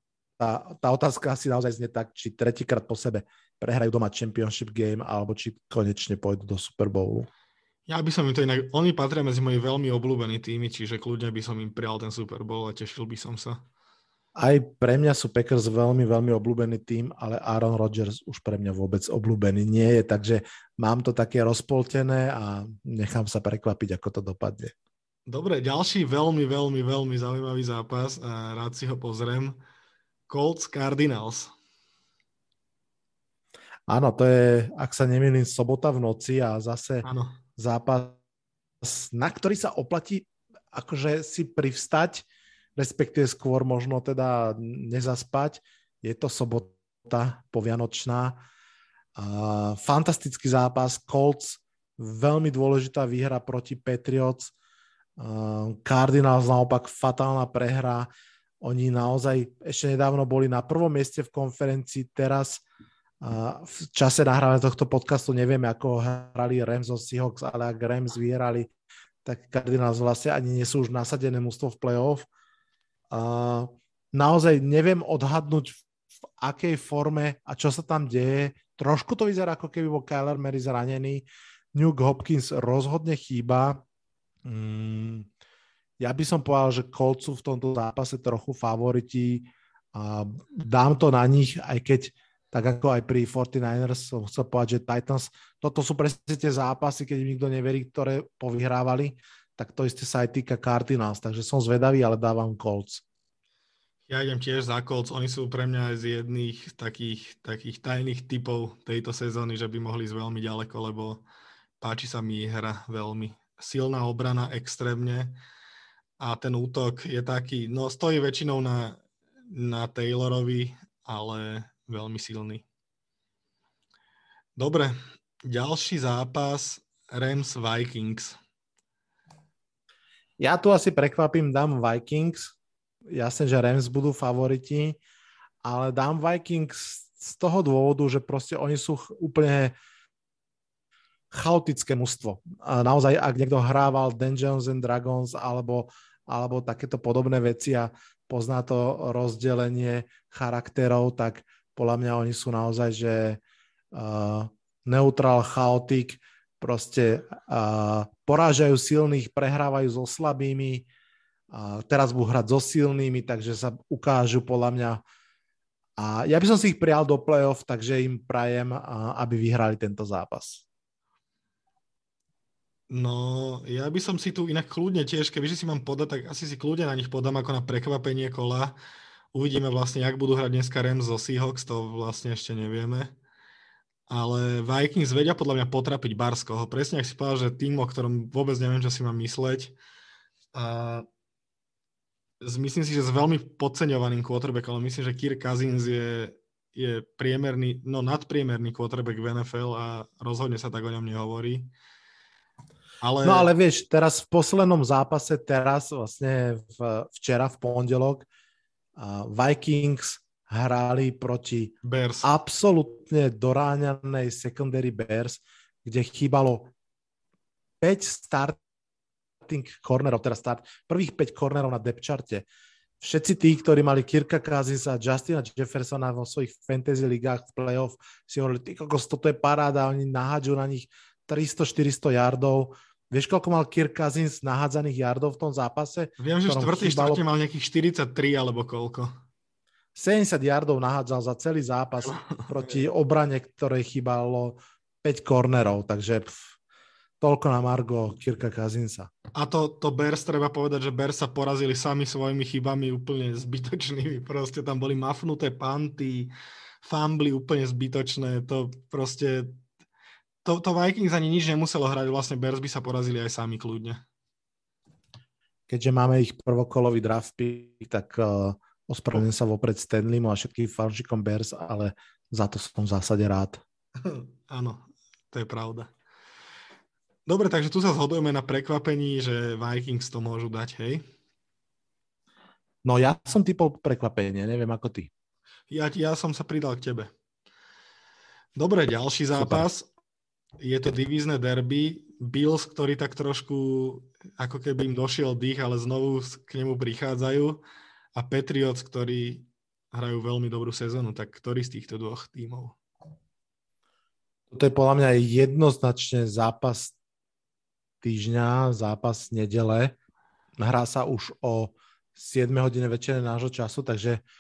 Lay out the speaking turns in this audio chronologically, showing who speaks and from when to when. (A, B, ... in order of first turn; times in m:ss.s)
0:00.4-0:07.3 A
0:07.9-0:13.6 B
0:14.4-0:24.7 A
0:25.3-0:29.6 B
0:30.3-0:31.5 B
0:33.9-0:37.1 A
0:37.0-0:37.4 B
0:37.6-0:38.2 A
0:38.8-0:42.2 A
0:42.8-0:48.4 A
0:49.2-0:54.5 A
0:55.2-0:58.1 A
0:58.6-1:02.6 A
1:03.2-1:08.7 A
1:09.2-1:12.3 A
1:13.1-1:15.8 A
1:16.4-1:23.8 A
1:24.4-1:25.3 A
1:26.0-1:43.0 A
1:44.1-1:51.2 B
1:51.8-1:55.4 B
1:56.2-2:02.6 B
2:04.6-2:08.4 B
2:10.4-2:12.6 A
2:13.1-2:15.0 A
2:15.6-2:19.7 A
2:21.3-2:33.4 A
2:33.9-2:40.9 A
2:41.5-2:45.0 A
2:46.0-2:50.6 A
2:52.9-2:58.8 B
2:59.3-3:03.1 B
3:04.1-3:09.8 B
3:10.5-3:11.1 B
3:12.4-3:21.7 B
3:23.0-3:23.5 B
3:23.2-3:28.3 A
3:29.0-3:36.7 A
3:31.8-3:32.3 B
3:37.8-3:38.6 A
3:39.4-3:42.4 A
3:43.0-3:57.2 A
3:56.2-3:59.1 B
4:00.0-4:06.6 A
4:02.0-4:02.8 B
4:07.2-4:09.1 A
4:09.3-4:16.3 B
4:16.8-4:19.6 B
4:20.4-4:24.0 B
4:25.7-4:33.6 A
4:34.0-4:35.9 B
4:37.3-4:41.0 B
4:42.8-4:45.1 A
4:45.7-4:47.1 B
4:48.6-4:49.9 B
4:49.4-4:49.6 A
4:50.6-4:57.6 B
4:58.2-5:02.8 B
5:04.5-5:07.0 A
5:08.0-5:10.0 A
5:10.6-5:14.2 A